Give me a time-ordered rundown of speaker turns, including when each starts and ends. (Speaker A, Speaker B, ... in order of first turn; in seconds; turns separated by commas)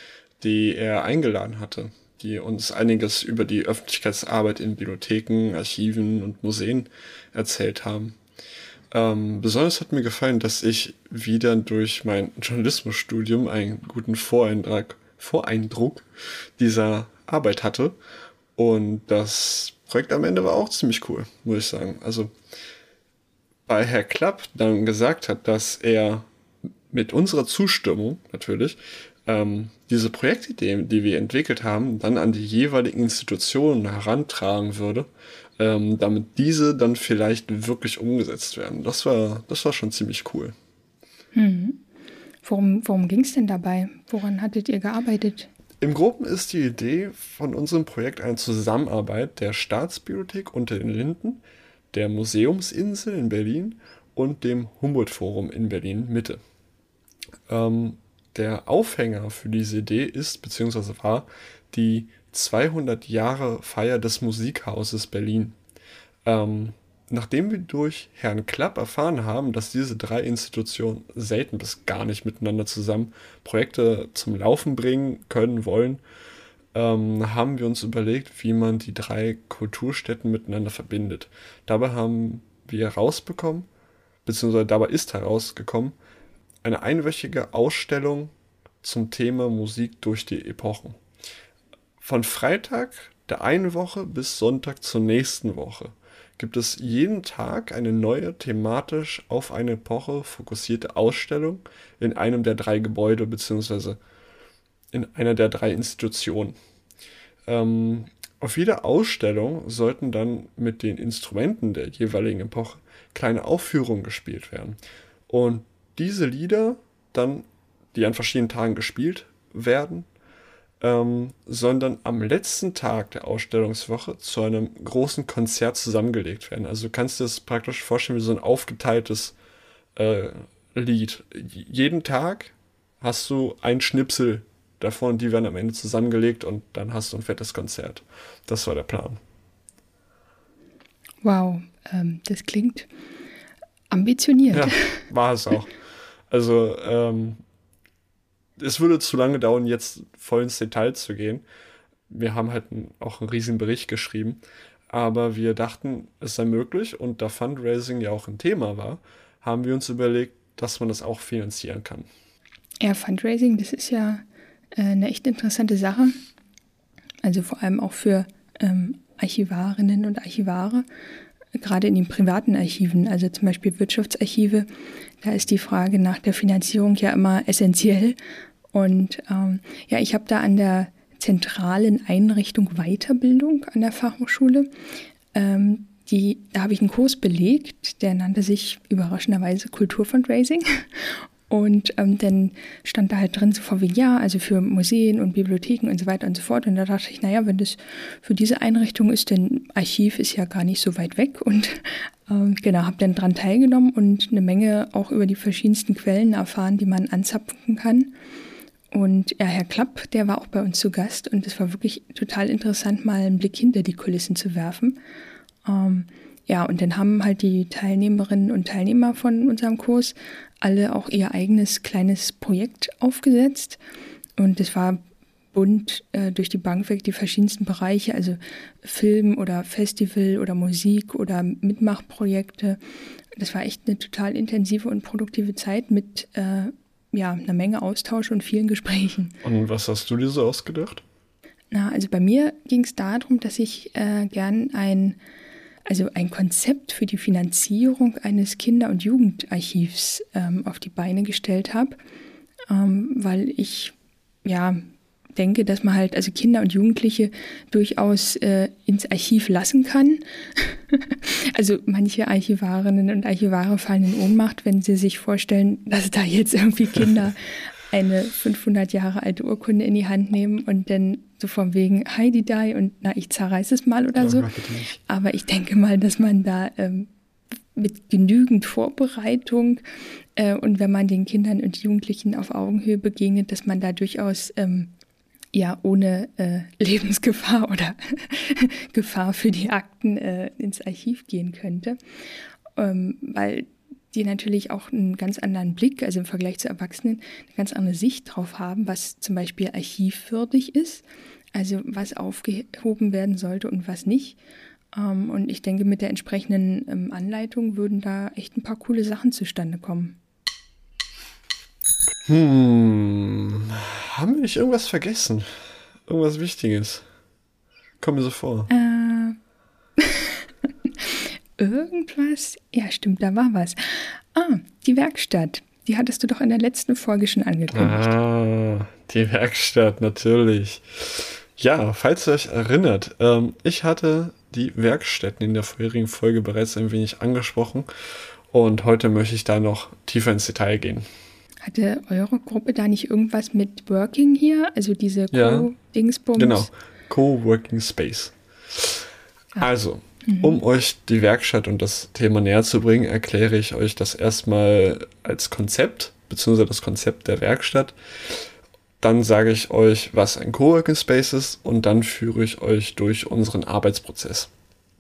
Speaker A: 0.4-8.2, Speaker A: 8.9-18.0, Speaker A: 18.6-22.3, Speaker A: 23.7-26.3, Speaker A: 26.9-35.1, Speaker A: 35.6-40.5, Speaker B: 41.3-41.8, Speaker B: 42.4-45.5, Speaker A: 45.8-56.4, Speaker A: 57.5-65.6, Speaker A: 66.2-76.0, Speaker A: 76.7-83.7, Speaker A: 84.2-86.0, Speaker A: 86.6-91.0, Speaker A: 92.0-104.0, Speaker A: 104.9-106.6, Speaker A: 107.5-120.1, Speaker A: 120.8-129.3, Speaker A: 130.0-139.2, Speaker B: 141.2-142.9, Speaker B: 143.9-145.0, Speaker A: 144.5-145.7, Speaker A: 146.3-147.4, Speaker A: 148.6-151.4, Speaker A: 152.1-162.1, Speaker B: 162.8-164.2, Speaker B: 164.8-166.2, Speaker B: 167.2-170.9, Speaker B: 171.6-174.7, Speaker B: 175.2-178.2, Speaker B: 178.7-184.7, Speaker B: 185.3-208.1, Speaker B: 208.9-215.0, Speaker B: 215.7-223.8, Speaker B: 224.4-225.0, Speaker B: 225.5-232.8, Speaker B: 233.4-239.4, Speaker A: 239.4-241.0, Speaker B: 241.7-245.2, Speaker B: 245.9-252.0, Speaker B: 252.7-254.8, Speaker B: 255.4-277.1, Speaker A: 274.2-274.9, Speaker B: 277.8-279.8, Speaker B: 280.4-284.9, Speaker B: 285.5-292.0, Speaker B: 292.8-304.4, Speaker B: 304.9-310.2, Speaker A: 312.3-317.0, Speaker A: 318.0-318.7, Speaker B: 318.7-319.4, Speaker B: 320.0-320.4, Speaker B: 321.0-328.1, Speaker A: 327.7-337.9, Speaker A: 338.5-341.1, Speaker B: 341.6-346.7, Speaker A: 345.3-345.7, Speaker A: 346.4-349.0, Speaker A: 349.6-358.4, Speaker B: 350.2-350.6, Speaker A: 359.0-364.5